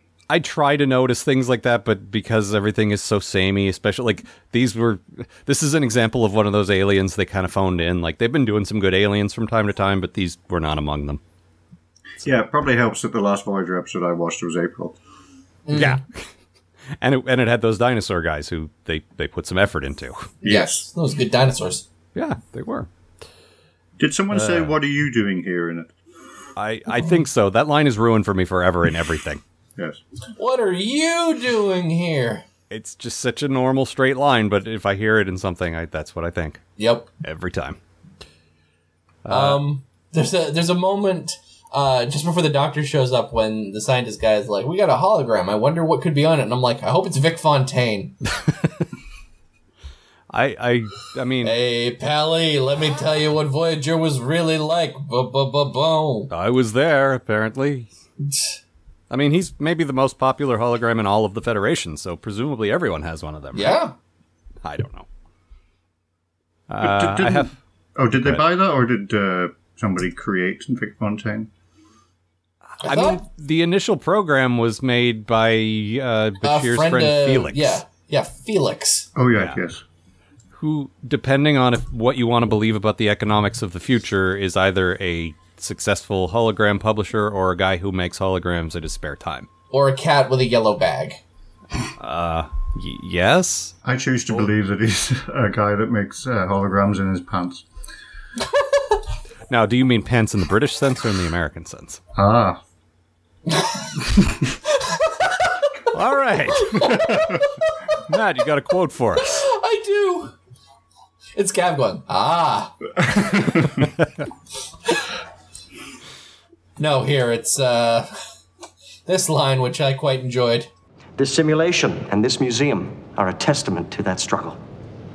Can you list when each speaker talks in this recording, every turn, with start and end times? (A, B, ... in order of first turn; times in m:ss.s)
0:00.3-0:11.2 A
0:12.2-0:15.0 B
0:15.7-0:16.0 C
0:15.7-0:16.2 A
0:17.0-0:20.3 A
0:20.4-0:20.8 B
0:20.4-0:21.8 C
0:22.1-0:22.9 A
0:24.0-0:25.9 B
0:24.3-0:24.8 A
0:26.6-0:29.4 A
0:30.4-0:32.4 C
0:32.7-0:36.7 A
0:36.8-0:37.1 C
0:37.2-0:37.8 A
0:39.2-0:39.6 A
0:39.3-0:48.1 C
0:50.3-0:51.5 A
0:51.4-0:56.3 C
0:56.3-0:57.9 A
0:59.1-1:03.8 A
1:03.5-1:03.9 C
1:04.6-1:05.0 A
1:06.7-1:07.5 A
1:06.8-1:11.5 B
1:12.8-1:17.8 A
1:12.8-1:13.2 C
1:16.4-1:19.1 C
1:19.1-1:19.8 B
1:20.5-1:29.5 A
1:29.7-1:31.2 C
1:32.0-1:33.7 A
1:33.8-1:37.6 B
1:39.5-1:42.0 A
1:42.1-1:42.6 B
1:43.5-1:43.7 C
1:45.9-1:47.2 A
1:46.6-1:47.4 C
1:47.0-1:47.4 B
1:48.1-1:49.4 A
1:49.2-1:50.3 C
1:51.4-1:52.7 C
1:56.8-1:58.1 C
1:59.0-2:00.7 C
2:01.2-2:04.6 D